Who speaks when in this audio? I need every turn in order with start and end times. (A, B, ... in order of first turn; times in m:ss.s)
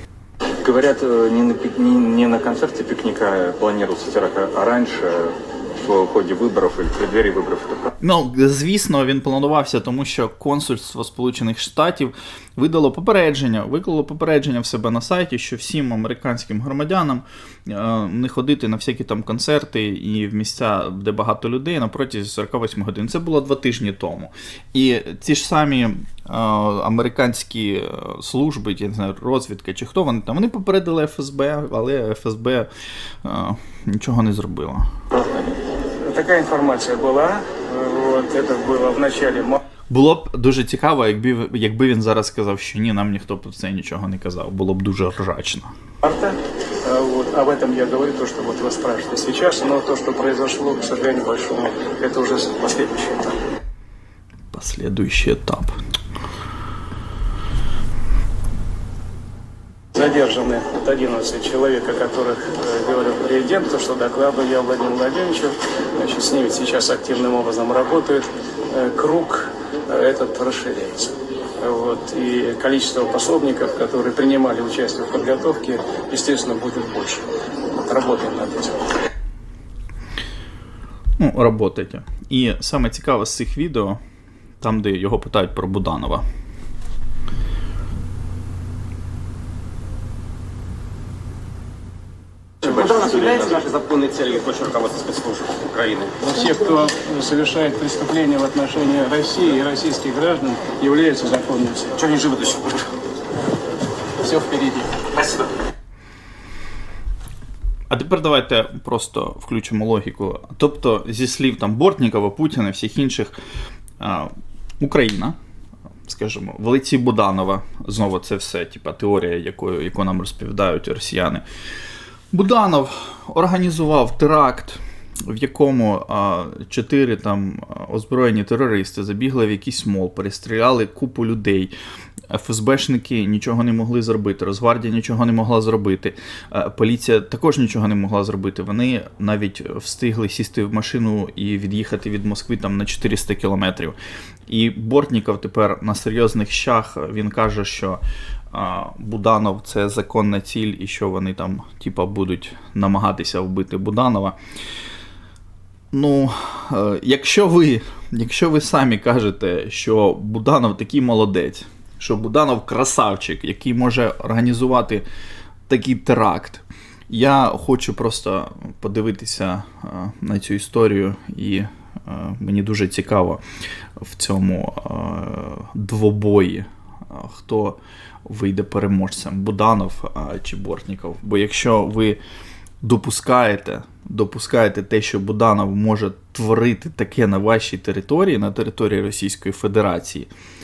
0:00.6-0:07.9 A
0:08.0-0:32.7 B
0:33.2-0:34.9 B
0:36.0-0:39.6 C
0:39.9-0:45.7 B
0:46.0-0:53.4 C
0:54.5-0:55.8 B
0:59.9-1:18.8 C
1:21.2-1:24.0 B
1:24.6-1:26.2 B
1:32.7-1:33.6 C
1:32.8-1:33.7 D
1:34.2-1:36.1 D
1:36.1-1:42.9 C
1:44.2-1:45.4 C
1:47.9-1:53.3 B
1:54.0-1:55.4 B
1:56.0-2:01.4 B
2:02.3-2:11.7 B
2:12.3-2:24.0 B
2:24.5-2:28.0 B
2:28.5-2:34.4 B
2:35.9-2:45.0 B
2:45.7-2:53.4 B
2:54.0-3:02.2 B
3:02.8-3:10.3 B